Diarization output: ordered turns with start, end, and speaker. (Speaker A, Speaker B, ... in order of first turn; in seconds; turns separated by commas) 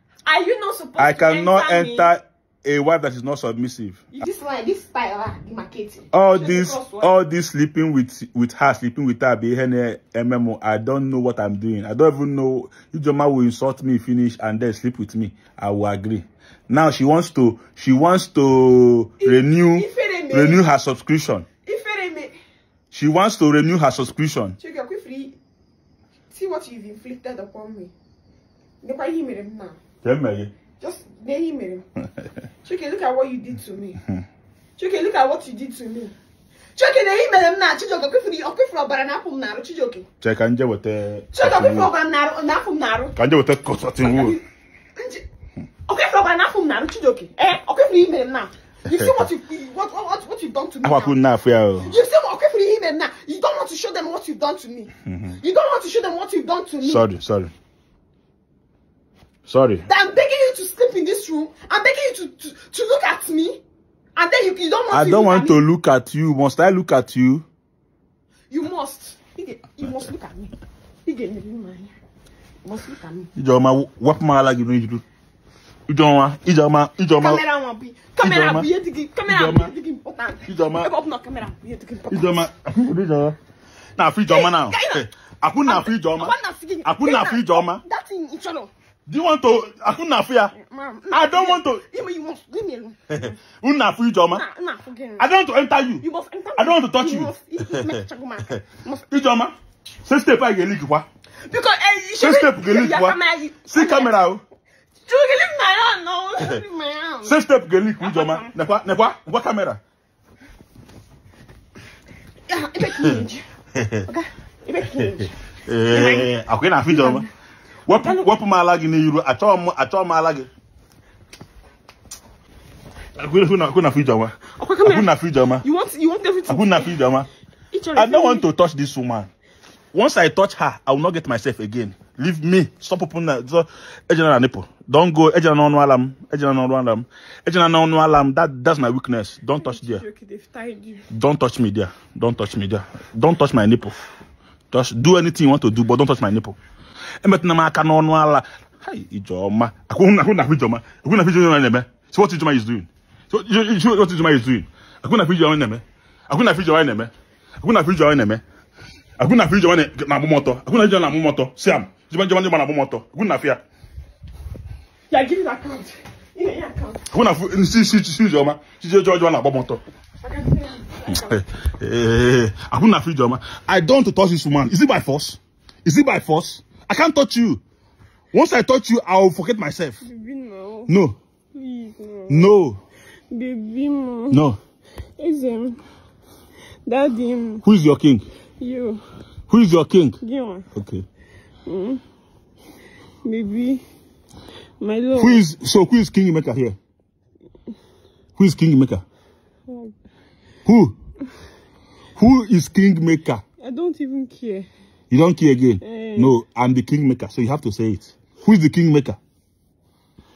Speaker A: 0.2-2.1, Speaker B: 1.0-4.2, Speaker A: 4.1-7.1, Speaker B: 6.1-21.5, Speaker A: 19.2-20.6, Speaker A: 21.6-22.4, Speaker B: 22.9-24.6, Speaker A: 24.6-25.4, Speaker A: 26.3-27.9, Speaker A: 28.8-29.8, Speaker B: 30.0-30.5, Speaker A: 30.8-31.9, Speaker A: 32.6-34.0, Speaker A: 34.8-36.1, Speaker A: 36.8-40.0, Speaker B: 40.2-41.9, Speaker A: 41.3-43.1, Speaker B: 43.1-44.4, Speaker A: 44.0-44.4, Speaker A: 45.0-45.2, Speaker A: 45.9-51.2, Speaker B: 48.9-49.3, Speaker B: 50.8-52.0, Speaker A: 51.8-57.1, Speaker B: 55.0-55.4, Speaker B: 56.8-57.5, Speaker B: 59.5-59.9, Speaker A: 59.9-63.6, Speaker A: 64.1-65.6, Speaker B: 64.9-67.5, Speaker A: 68.5-72.0, Speaker A: 72.6-73.3, Speaker B: 73.4-75.0, Speaker B: 75.9-77.4, Speaker A: 77.2-82.5, Speaker B: 78.2-78.7, Speaker B: 79.2-79.7, Speaker B: 80.5-80.9, Speaker B: 82.1-83.4, Speaker B: 84.0-87.8, Speaker A: 84.3-85.0, Speaker A: 85.6-88.7, Speaker B: 89.1-90.5, Speaker A: 90.5-93.3, Speaker B: 91.1-91.8, Speaker B: 93.1-94.5, Speaker A: 94.3-95.3, Speaker B: 95.2-96.0, Speaker A: 96.0-99.1, Speaker B: 96.5-99.5, Speaker B: 100.0-101.1, Speaker A: 101.5-104.2, Speaker B: 102.2-104.4, Speaker A: 105.0-107.4, Speaker B: 107.2-109.8, Speaker A: 108.0-108.5, Speaker A: 112.5-113.5, Speaker B: 113.8-114.0, Speaker A: 114.0-115.3, Speaker B: 115.7-117.3, Speaker A: 115.9-116.3, Speaker A: 116.9-117.3, Speaker B: 117.9-120.5, Speaker A: 117.9-118.3, Speaker B: 123.2-125.6, Speaker A: 124.5-127.0, Speaker B: 126.5-127.3, Speaker A: 127.7-128.5, Speaker B: 128.0-129.3, Speaker B: 129.9-140.0, Speaker A: 139.5-141.1, Speaker B: 141.1-144.0, Speaker B: 144.7-146.6, Speaker B: 147.2-158.4, Speaker B: 159.2-163.6, Speaker A: 165.1-167.1, Speaker B: 167.1-169.8, Speaker A: 170.2-171.4, Speaker B: 171.1-177.6, Speaker B: 178.3-180.0, Speaker A: 180.0-181.0, Speaker B: 180.9-181.2, Speaker A: 181.5-182.6, Speaker B: 182.3-182.8, Speaker A: 183.3-184.4, Speaker B: 184.3-184.6, Speaker A: 185.2-185.8, Speaker A: 186.9-187.6, Speaker B: 187.6-188.2, Speaker A: 188.6-189.0, Speaker B: 189.5-190.2, Speaker A: 190.2-190.7, Speaker B: 190.7-191.0, Speaker A: 191.7-192.0, Speaker A: 193.2-193.8, Speaker A: 194.8-195.4, Speaker B: 195.1-196.8, Speaker B: 198.4-199.0, Speaker A: 199.7-199.9, Speaker B: 200.7-200.9, Speaker B: 202.2-203.4, Speaker A: 203.6-204.7, Speaker B: 205.1-209.2, Speaker A: 205.8-206.3